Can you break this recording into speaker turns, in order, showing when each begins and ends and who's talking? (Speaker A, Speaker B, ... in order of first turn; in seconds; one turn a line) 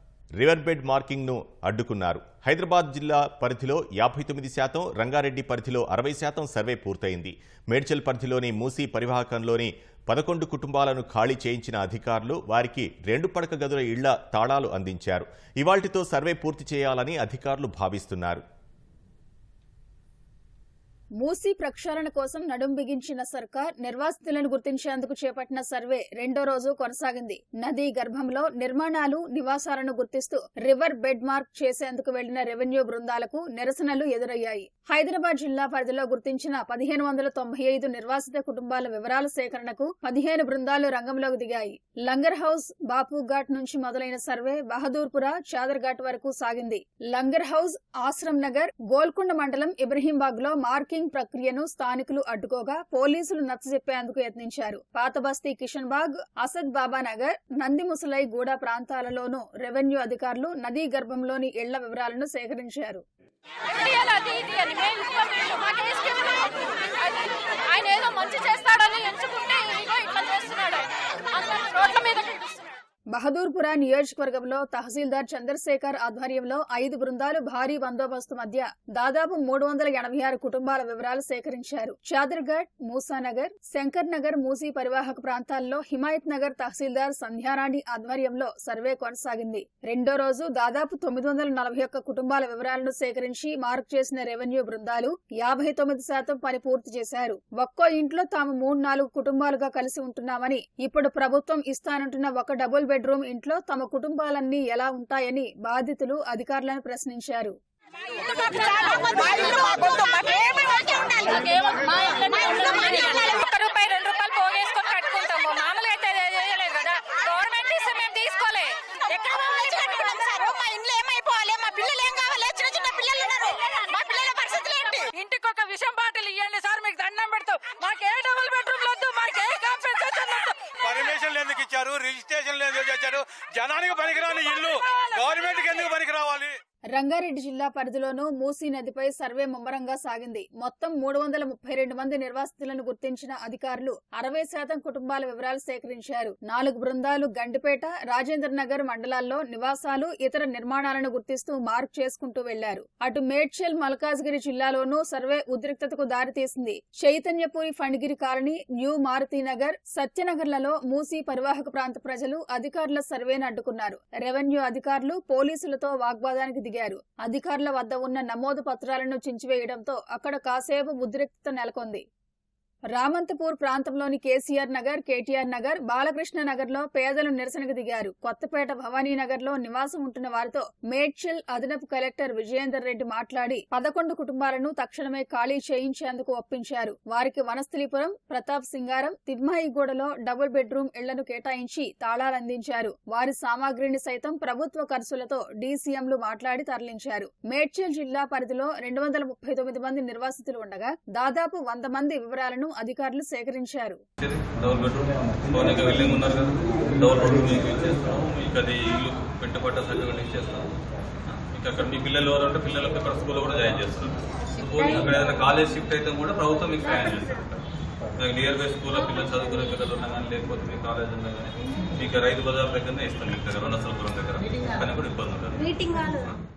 Speaker A: 0.4-18.4
Speaker B: 21.2-63.0
Speaker C: 63.7-72.6
Speaker B: 73.1-107.6
Speaker C: 108.1-120.6
Speaker D: 109.4-111.3
Speaker D: 112.4-113.4
Speaker D: 119.4-125.0
Speaker C: 123.4-131.1
Speaker E: 130.9-134.7
Speaker C: 134.1-135.8
Speaker E: 135.6-136.6
Speaker B: 136.9-172.0
Speaker B: 172.9-204.0
Speaker F: 204.2-210.7
Speaker F: 211.3-217.7
Speaker F: 218.2-226.4